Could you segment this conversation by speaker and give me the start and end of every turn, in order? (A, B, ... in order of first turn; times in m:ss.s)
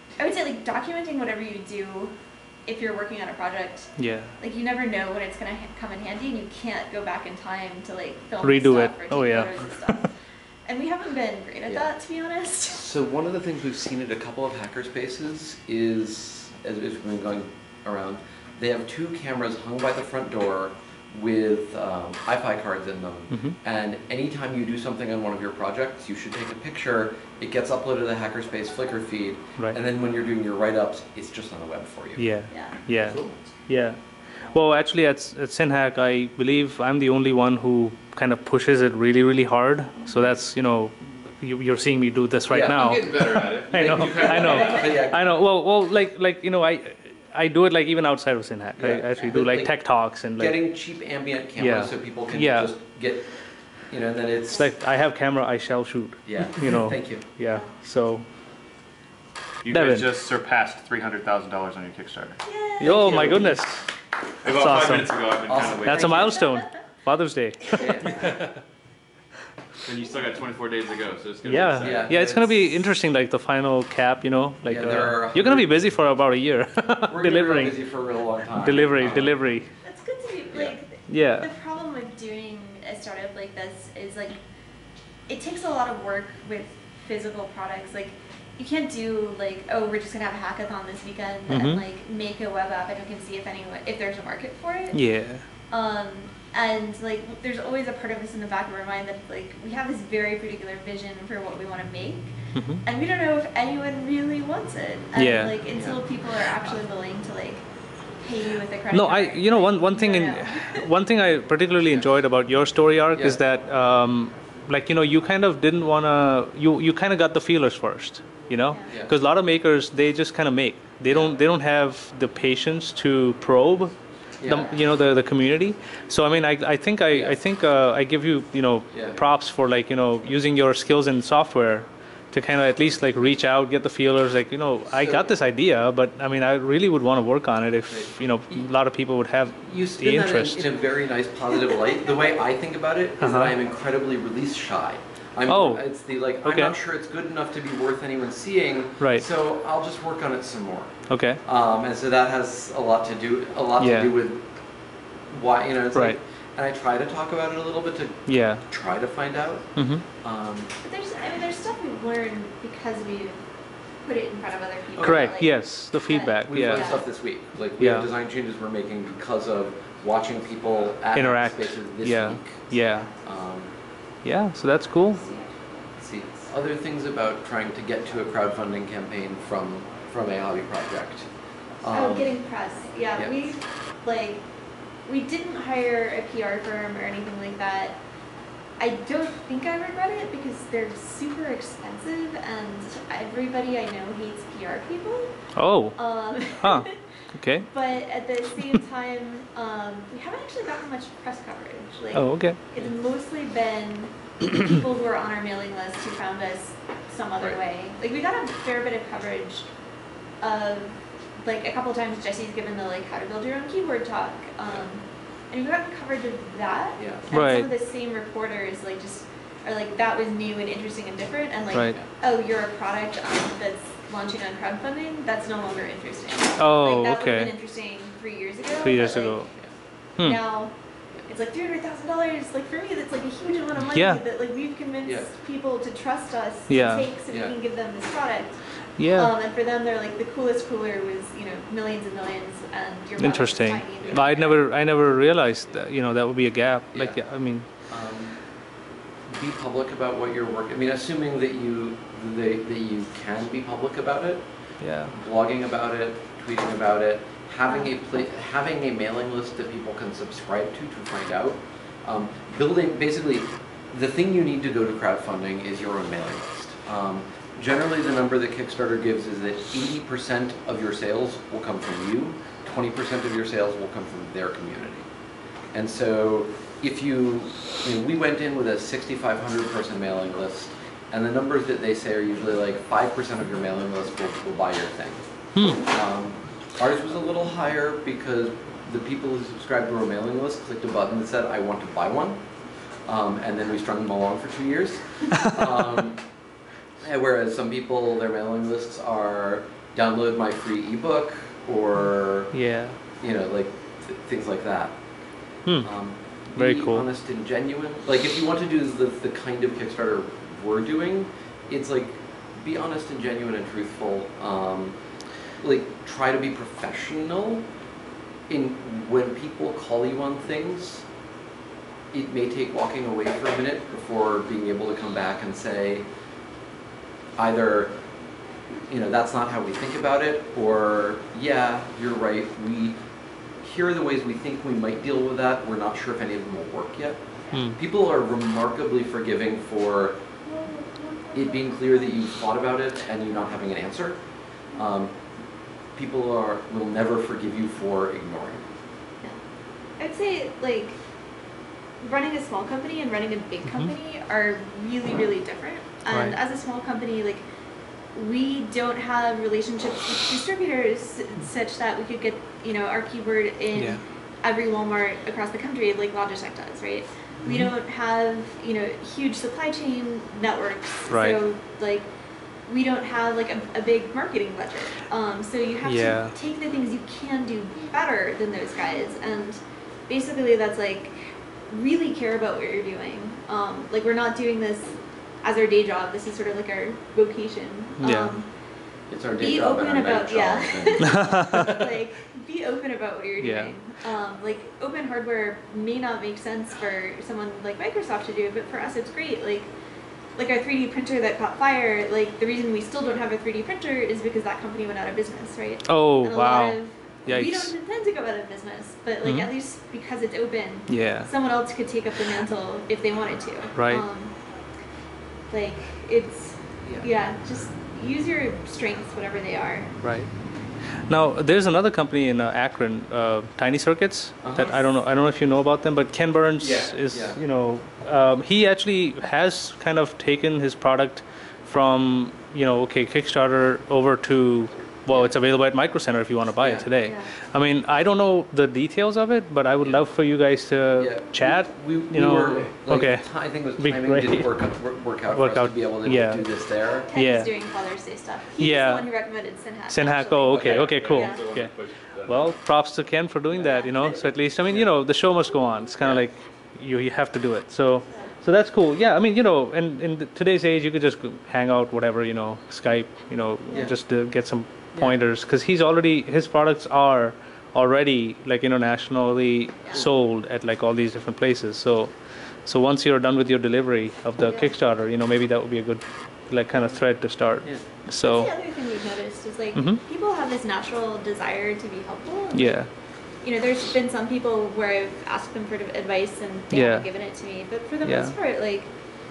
0:00.2-0:02.1 A
0:02.6-0:10.1 A
0:04.0-0:04.3 B
0:08.4-0:10.0 B
0:10.6-0:12.8 A
0:12.7-0:32.3 C
0:23.3-0:23.6 B
0:32.2-0:50.7 B
0:32.5-0:32.8 A
0:42.5-0:45.3 C
0:42.7-0:44.9 D
0:48.8-0:53.3 C
0:51.6-0:52.7 B
0:53.9-0:54.7 C
0:54.5-0:58.2 B
0:56.2-0:57.2 C
0:59.6-1:02.4 D
0:59.7-1:00.1 B
1:02.4-1:03.4 A
1:02.8-1:03.9 B
1:02.8-1:03.6 C
1:04.4-1:06.4 D
1:04.5-1:05.2 B
1:05.5-1:06.4 C
1:05.8-1:08.5 B
1:07.7-1:08.5 C
1:09.8-1:12.1 D
1:11.4-1:17.8 B
1:11.8-1:12.8 C
1:14.6-1:15.8 C
1:17.1-1:19.4 C
1:18.5-1:19.7 B
1:19.8-1:24.4 A
1:21.1-1:21.5 B
1:25.3-1:35.0 A
1:31.5-1:31.8 B
1:34.9-1:35.4 B
1:35.7-1:50.9 A
1:42.5-1:42.8 B
1:45.2-1:45.6 B
1:45.7-1:46.0 C
1:48.9-2:20.7 B
1:53.1-1:53.4 C
1:58.9-1:59.1 C
2:01.0-2:01.4 C
2:04.4-2:04.7 C
2:07.1-2:07.4 C
2:08.9-2:09.2 C
2:14.9-2:15.4 C
2:17.9-2:18.7 C
2:19.6-2:34.4 C
2:23.2-2:23.5 B
2:25.5-2:25.8 B
2:26.4-2:26.8 B
2:29.0-2:29.2 B
2:31.1-2:31.4 B
2:33.8-2:34.1 B
2:35.3-2:39.7 C
2:38.3-2:38.6 B
2:39.8-2:40.0 B
2:40.2-2:40.7 C
2:40.8-2:43.5 A
2:44.0-2:47.1 A
2:45.0-2:45.3 C
2:45.0-2:47.0 B
2:46.5-2:53.7 C
2:47.8-2:48.1 B
2:51.1-2:53.1 B
2:54.2-2:55.3 B
2:55.1-2:56.0 A
2:56.0-3:01.3 C
3:01.8-3:02.4 C
3:01.9-3:04.4 A
3:03.2-3:03.4 C
3:05.0-3:08.0 A
3:08.8-3:15.3 A
3:15.6-3:17.7 B
3:16.0-3:17.0 A
3:17.6-3:29.7 A
3:22.1-3:22.6 B
3:30.4-3:49.4 A
3:37.0-3:37.2 C
3:37.3-3:37.7 B
3:46.6-3:47.5 B
3:48.8-3:49.5 B
3:50.2-3:50.7 A
3:51.2-4:04.6 A
3:53.9-3:54.2 B
3:55.0-3:55.3 C
3:56.7-3:57.1 B
3:57.3-3:57.5 C
3:59.0-3:59.3 B
4:03.2-4:07.7 B
4:06.9-4:07.2 C
4:07.9-4:08.5 C
4:09.3-4:14.4 C
4:14.8-4:15.1 B
4:15.1-4:35.1 C
4:17.6-4:17.9 A
4:35.7-4:45.2 C
4:45.5-4:45.8 B
4:45.8-4:52.4 C
4:53.0-4:56.2 C
4:55.4-4:56.0 B
4:57.0-5:02.5 C
5:02.5-5:03.0 B
5:03.2-5:05.0 C
5:05.8-5:15.0 C
5:06.6-5:07.1 B
5:15.6-5:17.7 C
5:18.5-5:21.0 C
5:22.1-5:26.1 C
5:27.4-5:28.0 C
5:28.9-5:33.0 C
5:33.6-5:40.2 C
5:37.5-5:37.8 B
5:40.4-5:41.3 A
5:41.3-5:44.2 C
5:44.7-5:45.2 C
5:46.0-5:48.6 C
5:50.0-5:51.0 A
5:52.0-5:57.4 A
5:56.1-5:56.4 B
5:58.1-6:12.1 A
6:03.7-6:04.0 B
6:07.4-6:07.7 B
6:11.1-6:11.4 B
6:12.7-6:28.5 A
6:15.8-6:16.3 B
6:28.0-6:28.4 B
6:29.1-6:31.7 C
6:29.4-6:39.7 A
6:31.1-6:31.8 B
6:33.4-6:33.7 B
6:40.4-6:54.4 A
6:45.8-6:47.7 B
6:49.2-6:49.5 B
6:50.9-6:51.3 B
6:53.7-6:54.0 B
6:55.5-6:59.9 A
7:00.0-7:00.3 B
7:01.1-7:24.5 B
7:04.4-7:04.7 C
7:07.1-7:07.4 C
7:15.1-7:15.3 C
7:16.6-7:16.9 C
7:17.0-7:17.3 A
7:19.8-7:20.0 C
7:21.0-7:27.1 C
7:25.3-7:26.5 B
7:27.0-7:31.4 A
7:27.1-7:27.5 B
7:28.6-7:29.1 B
7:29.9-7:58.5 B
7:30.5-7:32.6 D
7:33.5-7:34.0 A
7:36.0-7:36.2 C
7:54.4-7:54.7 A
7:58.2-8:02.8 A
7:59.7-8:00.0 B
8:02.5-8:02.9 B
8:03.4-8:08.9 A
8:06.7-8:07.1 B
8:08.0-8:08.3 B